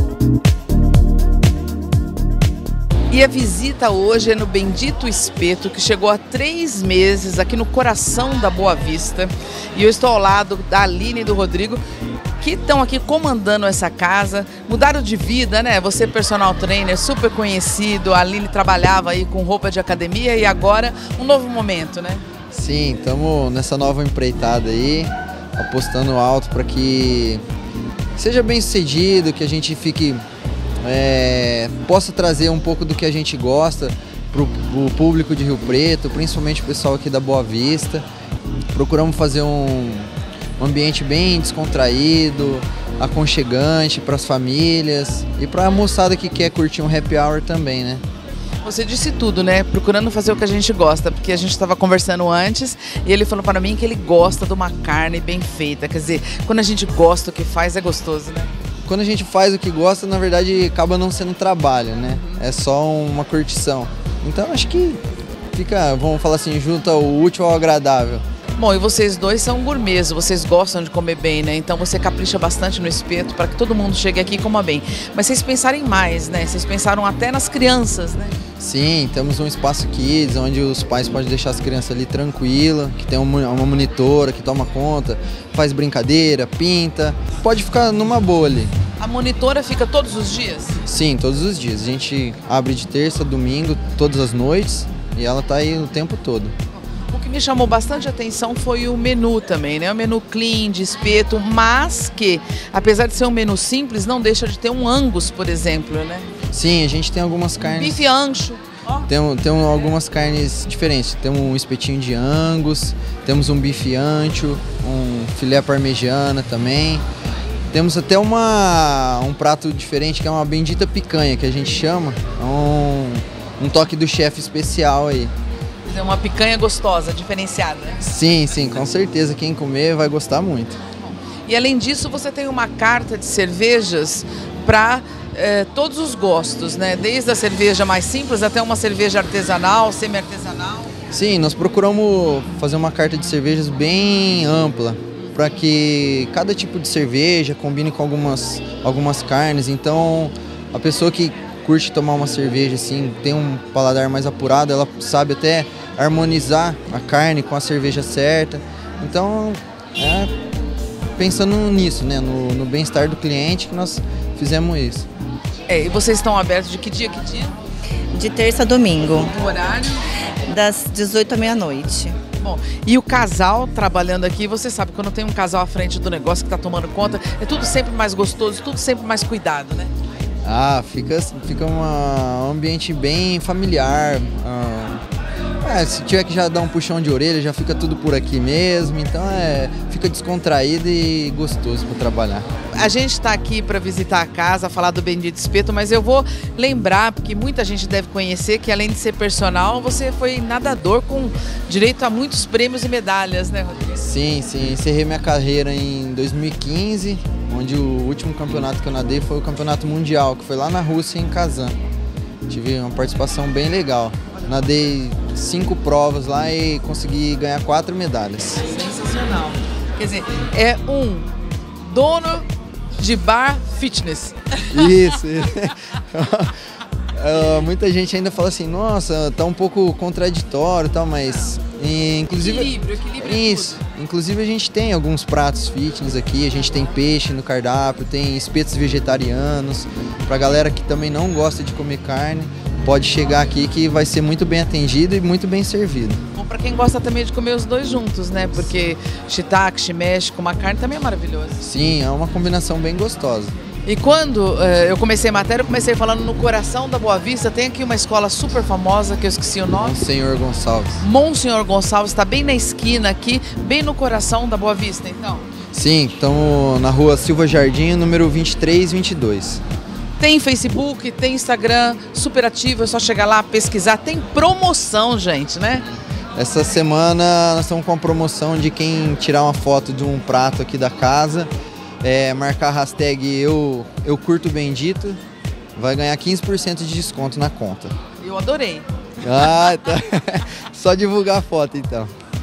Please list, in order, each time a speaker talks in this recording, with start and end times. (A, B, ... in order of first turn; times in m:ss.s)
0:03.1-0:11.8 A
0:12.4-0:22.2 A
0:22.5-0:27.4 B
0:28.2-0:30.2 B
0:30.8-0:38.0 B
0:38.7-0:48.0 B
0:48.6-0:58.5 A
0:58.8-1:05.0 B
1:02.1-1:02.4 A
1:05.5-1:08.2 B
1:08.6-1:18.4 A
1:18.6-1:28.7 B
1:29.0-1:30.8 A
1:30.8-1:36.5 B
1:37.1-1:46.3 A
1:46.5-1:48.1 B
1:47.6-1:49.1 A
1:49.1-1:57.0 B
1:57.7-2:05.3 B
2:05.8-2:08.0 A
2:08.0-2:10.8 B
2:11.4-2:20.9 A
2:21.1-2:40.3 B
2:41.2-2:45.1 B
2:45.7-2:47.6 A
2:48.1-2:49.3 C
2:49.2-2:50.1 A
2:50.4-2:52.2 C
2:52.4-2:59.9 A
3:00.4-3:05.0 B
3:05.6-3:12.4 B
3:12.7-3:24.1 A
3:24.0-3:31.7 B
3:32.5-3:38.6 B
3:38.6-3:41.2 A
3:41.8-3:45.2 A
3:44.7-3:46.5 B
3:47.2-4:06.2 B
3:52.3-3:53.8 A
4:06.3-4:11.6 A
4:11.6-4:13.5 B
4:13.8-4:20.0 A
4:19.7-4:21.0 B
4:21.0-4:25.4 A
4:25.7-4:29.6 B
4:30.2-4:35.8 A
4:36.4-4:41.5 B
4:42.0-4:45.2 B
4:45.8-4:47.9 B
4:48.2-4:49.7 A
4:49.2-4:52.1 B